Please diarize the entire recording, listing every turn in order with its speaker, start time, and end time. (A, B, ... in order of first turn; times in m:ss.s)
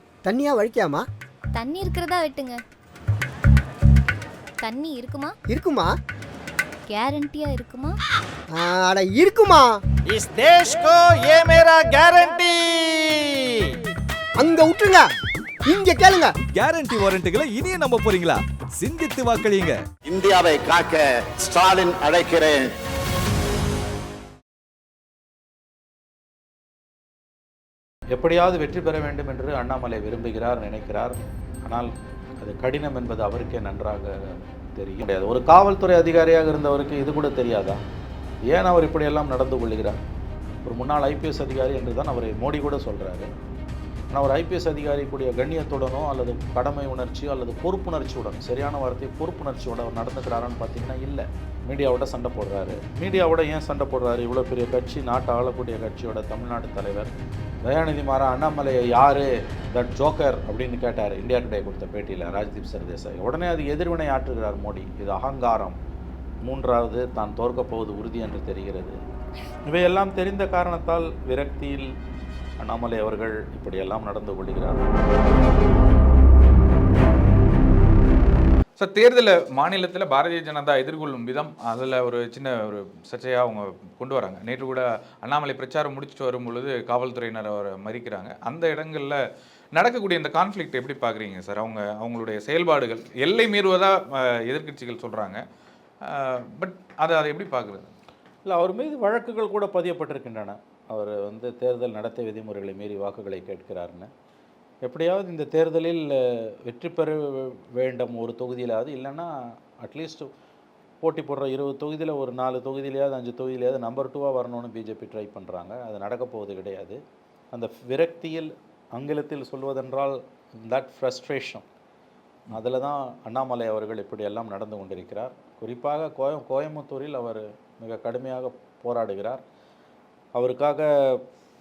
0:00.2-0:01.1 A
0:01.5-0:02.6 B
0:04.6-0:05.4 B
0:05.5-0:06.0 A
0:06.9-0:08.0 B
0:08.5-0:09.8 A
0:10.1-0:13.7 C
0:14.4-0:15.1 A
0:15.7-0:16.3 A
0:16.5-0:19.8 D
0:20.1-0:22.7 E
0:28.1-0:37.8 F
0:38.5-0:40.0 F
0:40.6-0:43.3 F
0:44.1-0:57.1 F
0:57.6-1:05.8 F
1:06.4-1:09.0 F
1:09.7-1:11.9 F
1:12.6-1:15.0 F
1:18.8-1:29.2 G
1:29.8-1:35.4 G
1:36.1-1:37.9 G
1:38.4-1:44.1 F
1:44.8-1:50.3 F
1:51.0-1:57.0 F
1:57.5-2:01.6 F
2:02.5-2:09.4 F
2:10.4-2:11.2 F